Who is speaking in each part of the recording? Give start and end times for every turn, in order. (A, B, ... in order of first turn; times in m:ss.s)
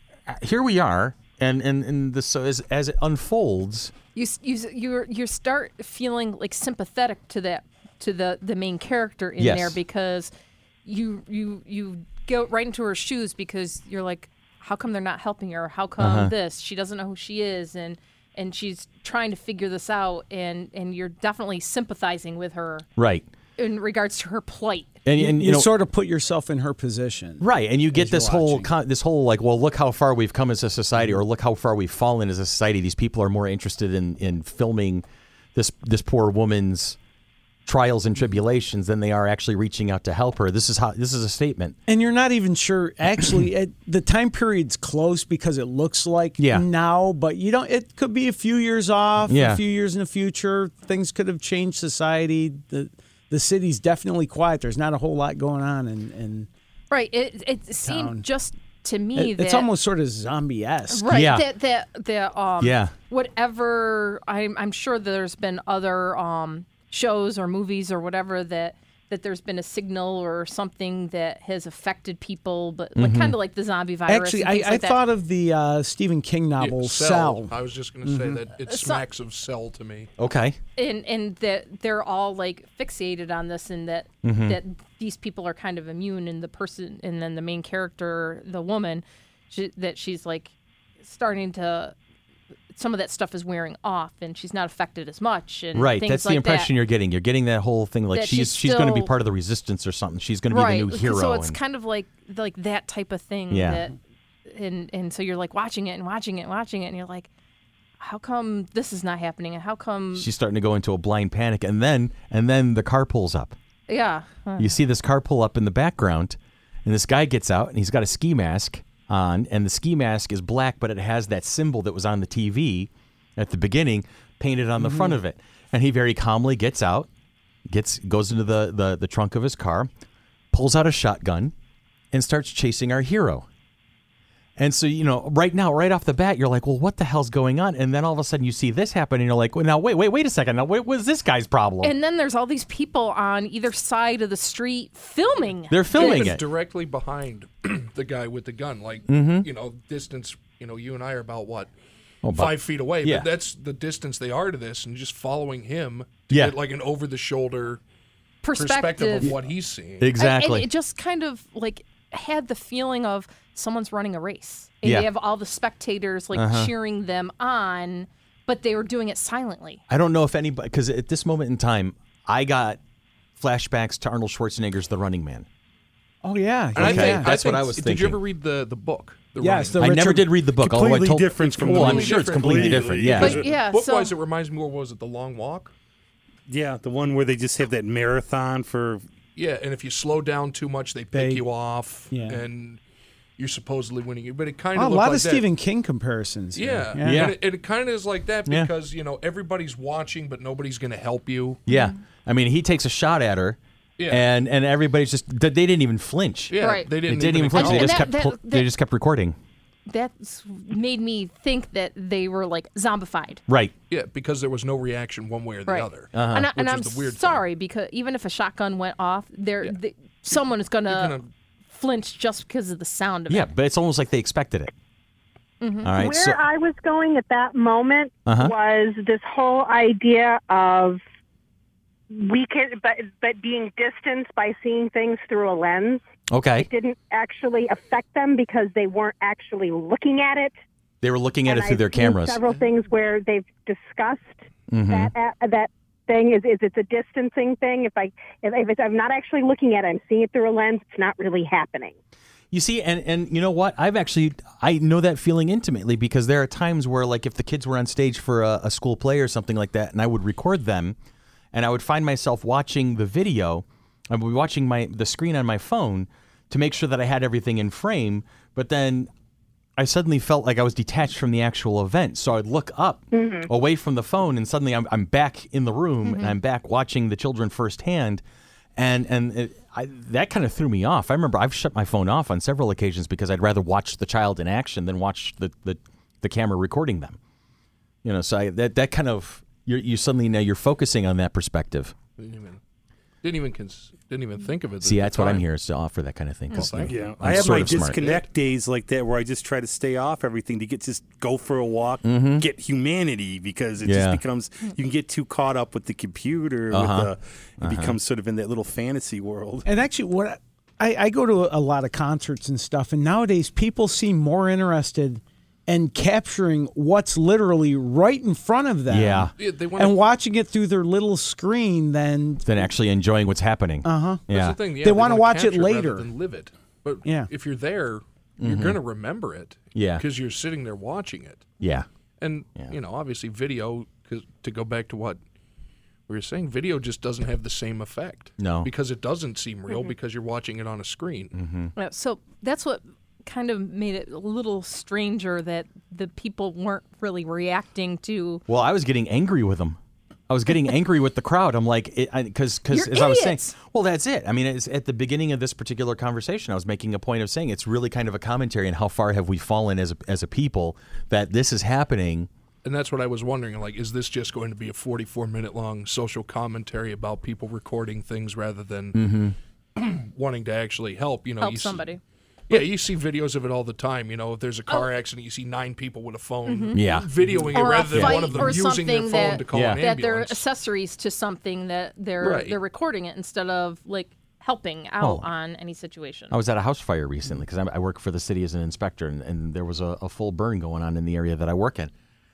0:00.3-0:03.9 A
0:04.1-0:10.3 B
0:09.4-0:09.8 A
0:10.8-0:22.8 B
0:16.0-0:16.3 A
0:23.0-0:23.2 A
0:23.6-0:25.0 B
0:25.0-0:25.7 A
0:25.2-0:28.7 C
0:27.4-0:35.0 A
0:35.5-0:37.0 A
0:37.6-0:41.8 A
0:41.9-0:56.5 C
0:46.4-0:46.6 A
0:49.3-0:49.6 A
0:56.9-0:59.7 B
0:57.8-0:58.2 C
0:59.1-1:01.1 C
1:00.9-1:15.0 B
1:01.1-1:01.5 A
1:02.6-1:02.9 A
1:13.0-1:13.4 A
1:14.1-1:18.4 C
1:16.6-1:20.1 D
1:18.6-1:19.0 B
1:20.2-1:20.6 A
1:20.8-1:30.5 B
1:24.2-1:24.6 A
1:31.0-1:31.9 B
1:32.7-1:36.7 B
1:35.7-1:41.6 A
1:38.1-1:39.1 B
1:40.5-1:43.9 B
1:43.5-1:43.8 A
1:44.5-1:47.3 B
1:48.0-1:50.3 B
1:50.1-1:53.5 A
1:53.9-1:54.7 B
1:54.6-2:07.1 A
2:04.8-2:05.2 C
2:07.7-2:09.9 A
2:10.5-2:11.5 A
2:12.1-2:13.4 A
2:14.6-2:21.9 A
2:21.8-2:26.4 B
2:25.7-2:26.4 A
2:25.9-2:31.7 D
2:29.1-2:29.5 A
2:32.2-2:33.3 A
2:32.3-2:37.8 D
2:36.3-2:36.6 A
2:38.4-2:39.3 B
2:38.5-2:40.1 D
2:40.0-2:40.7 A
2:40.2-2:49.8 B
2:46.3-2:46.7 A
2:49.9-2:52.8 A
2:53.4-2:55.4 A
2:56.2-2:57.6 C
2:56.8-2:58.2 A
2:56.8-2:59.9 D
2:59.4-3:01.2 C
2:59.8-3:03.4 A
3:00.6-3:03.5 E
3:01.4-3:05.7 D
3:03.1-3:04.1 B
3:06.5-3:09.0 E
3:09.4-3:12.8 D
3:11.1-3:11.4 C
3:12.1-3:12.4 C
3:13.4-3:15.4 D
3:14.7-3:17.3 C
3:16.5-3:21.6 D
3:17.0-3:17.4 A
3:21.6-3:29.4 A
3:21.7-3:22.0 B
3:24.0-3:24.3 D
3:26.5-3:28.1 D
3:26.6-3:26.9 B
3:27.5-3:28.7 B
3:29.9-3:33.4 B
3:33.5-3:33.7 A
3:33.9-3:37.4 D
3:35.7-3:41.2 B
3:36.1-3:36.5 A
3:40.8-3:41.3 D
3:41.7-3:43.5 B
3:43.3-3:44.7 A
3:45.6-3:45.9 B
3:45.8-3:46.4 A
3:45.9-3:51.0 F
3:48.2-3:48.5 A
3:52.1-3:56.0 F
3:56.3-3:56.7 A
3:56.5-4:00.5 F
4:01.0-4:02.4 A
4:01.4-4:11.9 F
4:04.7-4:05.1 A
4:12.5-4:20.9 A
4:21.5-4:29.1 A
4:29.8-4:38.2 A
4:33.1-4:33.5 F
4:36.0-4:36.3 B
4:38.8-4:47.2 A
4:48.0-4:51.9 A
4:52.2-4:52.6 D
4:53.2-4:55.4 D
4:54.8-4:58.0 A
4:56.5-4:58.2 D
4:56.7-5:09.6 E
5:02.0-5:02.4 A
5:03.8-5:04.2 A
5:06.7-5:08.0 A
5:09.6-5:22.6 C
5:18.9-5:19.3 A
5:19.4-5:20.0 D
5:22.4-5:24.6 A
5:23.8-5:24.2 C
5:24.3-5:31.5 D
5:24.8-5:26.1 C
5:27.0-5:27.3 C
5:28.4-5:28.8 A
5:29.7-5:30.0 A
5:31.6-5:31.8 A
5:32.2-5:35.2 D
5:36.1-5:41.3 D
5:38.4-5:38.7 A
5:41.3-5:41.7 A
5:41.8-5:48.4 B
5:48.5-5:49.8 A
5:50.3-6:02.3 A
5:52.7-5:53.5 B
6:02.6-6:09.0 D
6:08.9-6:09.4 A
6:09.8-6:11.9 D
6:11.4-6:12.0 B
6:12.5-6:20.4 D
6:16.4-6:16.9 B
6:16.7-6:18.5 A
6:17.5-6:26.3 B
6:19.5-6:19.8 A
6:22.2-6:22.6 D
6:25.0-6:25.2 A
6:26.3-6:31.9 A